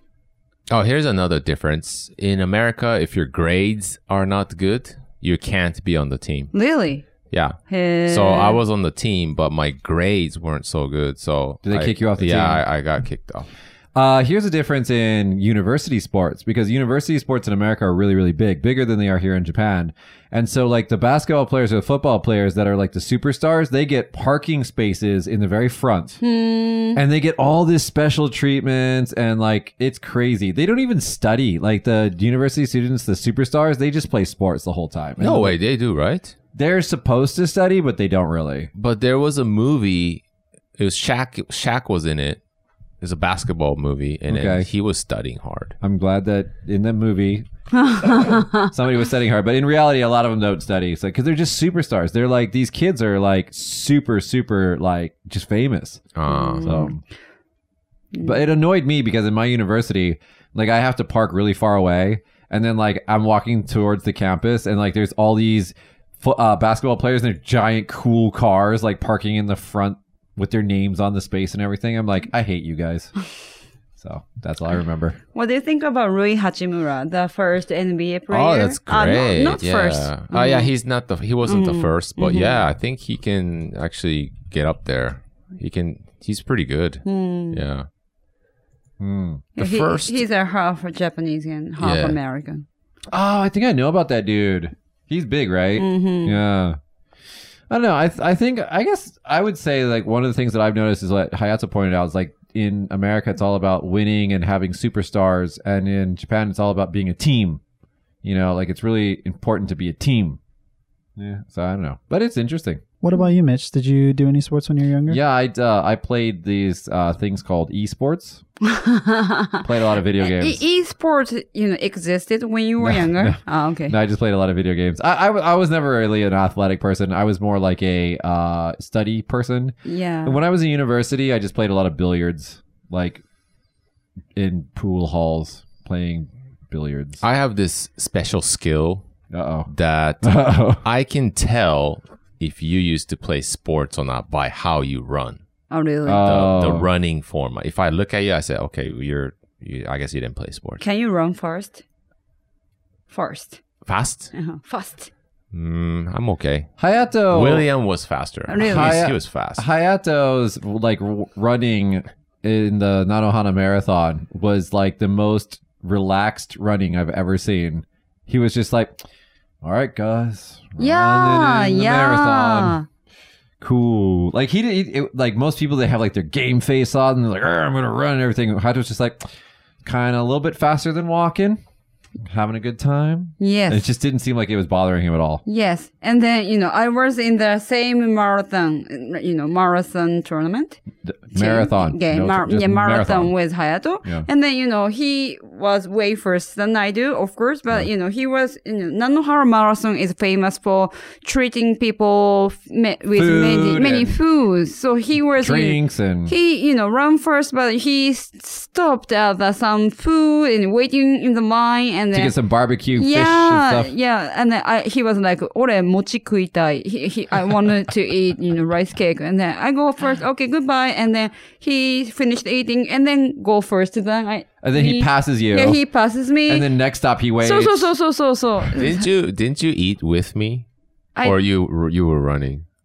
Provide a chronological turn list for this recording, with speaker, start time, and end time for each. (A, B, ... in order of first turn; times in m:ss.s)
0:00.7-0:06.5 A
0:06.5-0:07.0 B
0:07.3-0:13.5 A
0:07.7-0:08.6 B
0:11.6-0:12.6 C
0:14.0-0:26.2 C
0:26.2-0:27.0 B
0:27.0-0:35.6 C
0:35.2-0:36.3 A
0:36.6-0:38.7 C
0:38.7-0:40.2 A
0:40.8-0:42.4 A
0:43.0-0:45.8 A
0:44.3-0:44.7 C
0:45.8-0:47.4 C
0:47.7-0:48.7 B
0:48.0-0:57.0 C
0:56.2-0:56.9 A
0:56.3-0:56.9 B
0:58.2-1:13.1 C
1:14.0-1:15.2 C
1:15.3-1:20.7 B
1:18.3-1:27.9 A
1:21.5-1:22.6 B
1:27.0-1:27.6 B
1:29.0-1:29.4 C
1:29.6-1:32.7 B
1:29.6-1:30.2 A
1:31.8-1:32.2 A
1:33.1-1:36.8 C
1:35.8-1:36.4 B
1:37.7-1:47.6 C
1:48.2-1:50.4 C
1:51.2-1:52.8 C
1:53.0-1:55.2 D
1:55.1-1:58.4 C
1:58.6-1:59.6 B
1:59.6-2:00.6 C
2:00.2-2:04.0 B
2:02.8-2:13.2 C
2:09.8-2:10.4 B
2:14.4-2:17.2 C
2:17.2-2:19.0 A
2:19.3-2:19.7 C
2:19.7-2:25.4 A
2:20.2-2:20.8 C
2:25.7-2:26.3 B
2:26.0-2:26.9 C
2:26.2-2:30.8 A
2:30.8-2:31.8 B
2:33.1-2:33.6 B
2:33.8-2:34.3 A
2:34.3-2:35.1 B
2:35.5-2:36.7 A
2:36.8-2:37.7 C
2:37.3-2:39.6 A
2:38.5-2:39.0 B
2:38.6-2:49.0 C
2:49.6-2:52.8 C
2:50.8-2:52.8 B
2:53.6-2:59.2 C
2:59.8-3:01.6 C
3:02.2-3:05.4 C
3:03.4-3:03.9 B
3:05.4-3:10.8 B
3:11.0-3:13.3 C
3:11.3-3:32.3 B
3:23.1-3:24.1 C
3:25.4-3:26.3 C
3:32.1-3:33.9 C
3:33.0-3:46.7 B
3:44.6-3:45.8 C
3:46.5-3:47.9 C
3:47.4-3:49.1 B
3:48.8-3:50.7 A
3:51.2-3:52.7 A